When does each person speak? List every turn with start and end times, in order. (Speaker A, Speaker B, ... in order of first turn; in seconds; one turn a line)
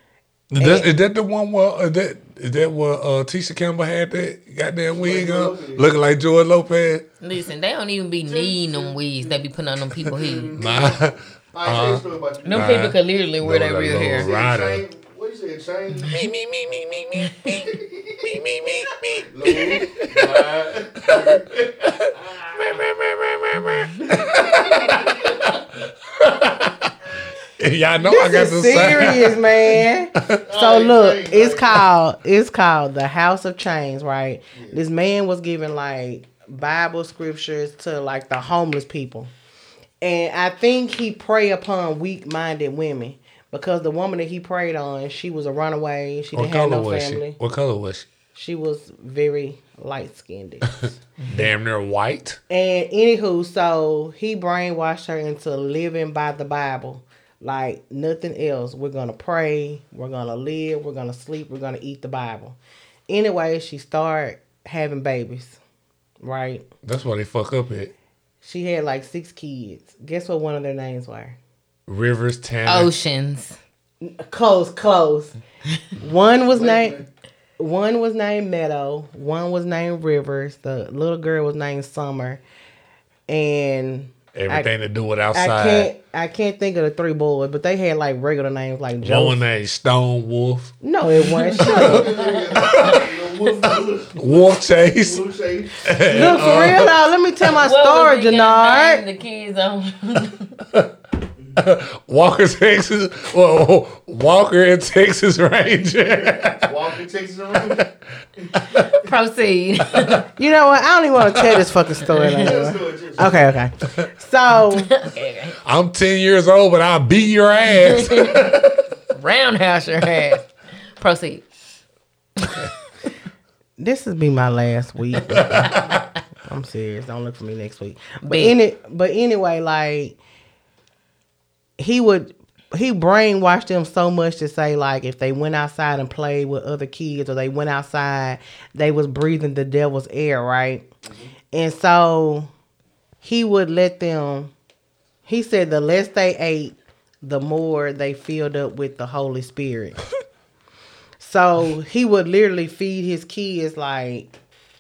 Speaker A: 0.5-7.0
Speaker B: 0.6-0.9
Speaker C: 4.9-5.9
Speaker D: 7.2-10.6
Speaker C: 8.2-9.4
Speaker C: 10.0-12.8
Speaker A: 10.6-14.8
Speaker D: 12.4-14.3
Speaker C: 14.1-16.3
Speaker A: 16.1-26.9
Speaker C: 17.5-18.3
Speaker C: 19.3-22.6
Speaker C: 24.1-25.6
Speaker A: 27.6-30.4
Speaker B: 28.0-39.3
Speaker C: 30.5-31.8
Speaker C: 34.5-34.8
Speaker B: 40.0-47.4
Speaker A: 46.4-48.1
Speaker B: 48.3-51.0
Speaker D: 51.2-51.5
Speaker A: 51.3-52.4
Speaker B: 52.5-65.6
Speaker B: 66.2-66.7
Speaker A: 66.8-67.9
Speaker B: 68.4-71.4
Speaker A: 71.9-72.9
Speaker D: 72.7-73.6
Speaker B: 74.0-75.3
Speaker B: 76.0-77.0
Speaker C: 76.5-77.1
Speaker B: 77.6-82.4
Speaker B: 83.3-84.7
Speaker A: 84.3-85.9
Speaker B: 85.3-89.4
Speaker A: 89.0-90.8
Speaker B: 90.8-92.1
Speaker D: 91.3-93.0
Speaker C: 91.6-96.7
Speaker A: 92.6-93.0
Speaker A: 94.2-95.2
Speaker A: 95.8-97.0
Speaker B: 96.1-99.0
Speaker D: 97.5-100.6
Speaker A: 101.6-106.8
Speaker C: 106.1-107.8
Speaker A: 107.6-107.9
Speaker C: 108.4-108.8
Speaker A: 108.6-109.0
Speaker D: 108.8-110.3
Speaker B: 110.4-114.9
Speaker C: 112.4-113.4
Speaker D: 114.8-115.6
Speaker A: 115.7-118.7
Speaker D: 117.8-118.5
Speaker D: 119.1-121.5
Speaker D: 122.4-122.7
Speaker B: 123.8-125.8
Speaker D: 125.3-125.9
Speaker A: 125.6-125.8
Speaker B: 126.4-130.2
Speaker D: 128.2-128.6
Speaker B: 131.8-140.9
Speaker C: 141.1-141.3
Speaker B: 141.5-142.5
Speaker B: 143.2-144.5
Speaker B: 145.3-150.0
Speaker B: 151.2-154.3